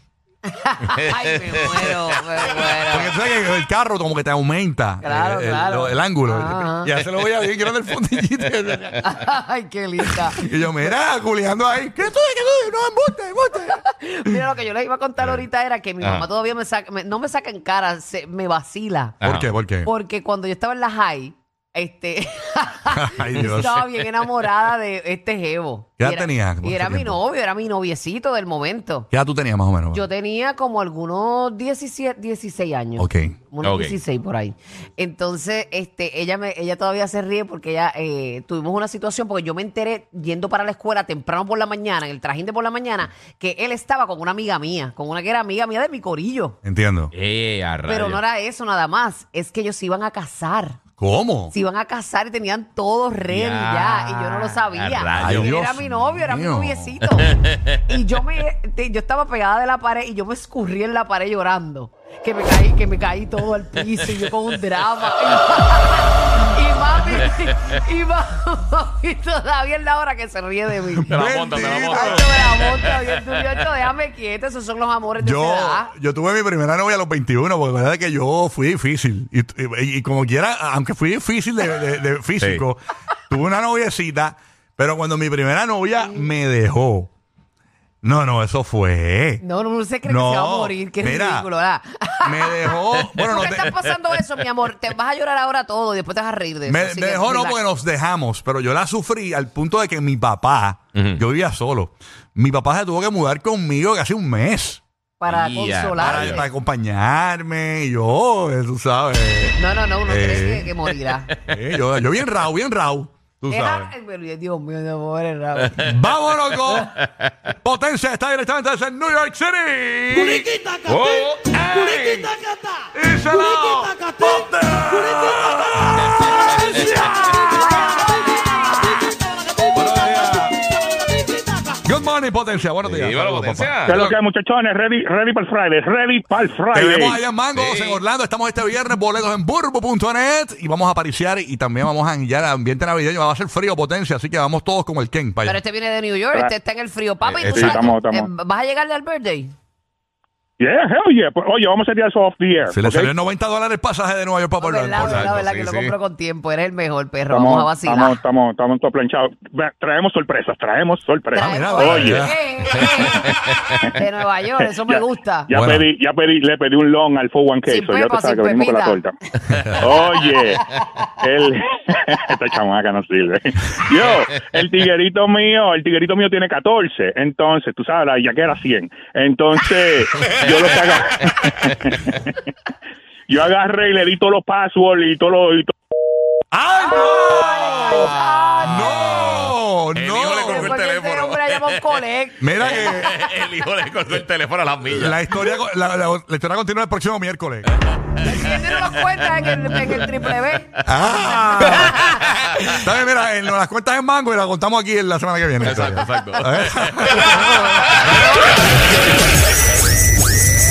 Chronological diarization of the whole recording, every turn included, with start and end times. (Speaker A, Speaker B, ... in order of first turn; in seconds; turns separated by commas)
Speaker A: 0.5-3.2, Speaker B: 1.0-2.0, Speaker C: 2.9-9.1, Speaker A: 5.0-6.9, Speaker A: 9.0-10.4, Speaker C: 10.4-14.4, Speaker A: 13.7-19.2, Speaker B: 16.0-16.3, Speaker B: 19.2-19.5, Speaker C: 19.2-19.9, Speaker A: 19.8-29.1, Speaker C: 22.9-24.0, Speaker C: 26.0-27.2, Speaker C: 29.1-30.0, Speaker A: 29.9-46.6, Speaker C: 33.0-33.4, Speaker B: 33.6-34.0, Speaker C: 46.6-47.1, Speaker B: 47.1-48.2, Speaker A: 47.9-50.8, Speaker C: 51.0-51.5, Speaker A: 51.5-71.1, Speaker B: 53.3-55.5, Speaker C: 55.2-56.9, Speaker B: 57.2-57.6, Speaker C: 70.9-72.3, Speaker B: 71.1-73.7, Speaker A: 71.6-75.9, Speaker C: 75.2-87.1, Speaker B: 82.4-82.6, Speaker A: 86.0-86.3, Speaker C: 88.0-89.4, Speaker A: 89.4-97.6, Speaker C: 90.0-91.5, Speaker C: 92.2-93.7, Speaker C: 96.7-104.8, Speaker B: 101.0-101.2, Speaker A: 105.2-106.5, Speaker B: 105.2-106.4, Speaker C: 105.9-110.7, Speaker A: 109.6-111.3, Speaker C: 111.5-113.9, Speaker A: 113.5-115.8, Speaker B: 115.7-115.9, Speaker C: 115.8-116.9, Speaker B: 116.7-117.3, Speaker C: 117.6-120.5, Speaker B: 120.8-122.2, Speaker C: 121.7-122.3, Speaker C: 122.9-127.8, Speaker B: 126.2-127.0, Speaker A: 127.5-128.9, Speaker C: 129.7-130.6, Speaker C: 131.8-133.8, Speaker B: 132.8-134.2, Speaker D: 133.9-137.2, Speaker C: 136.7-145.6, Speaker B: 137.5-138.0, Speaker A: 145.4-149.5, Speaker B: 147.2-147.9, Speaker D: 147.6-148.3, Speaker D: 150.6-153.1, Speaker C: 152.7-155.4, Speaker A: 154.6-158.2, Speaker B: 155.0-155.9, Speaker D: 157.3-162.2, Speaker A: 161.3-163.3, Speaker C: 161.4-162.4, Speaker B: 162.7-163.6, Speaker A: 163.9-165.5, Speaker D: 164.8-169.1, Speaker C: 165.5-165.9, Speaker A: 167.7-169.0, Speaker D: 169.8-170.6, Speaker D: 171.2-181.7, Speaker B: 180.3-181.3, Speaker D: 183.3-185.7, Speaker C: 186.5-190.8, Speaker A: 186.9-189.5, Speaker B: 188.1-192.0, Speaker A: 190.4-193.1, Speaker C: 192.4-193.2, Speaker B: 192.6-195.2, Speaker C: 194.9-197.7, Speaker A: 198.2-200.7, Speaker C: 200.8-207.9, Speaker B: 205.6-207.4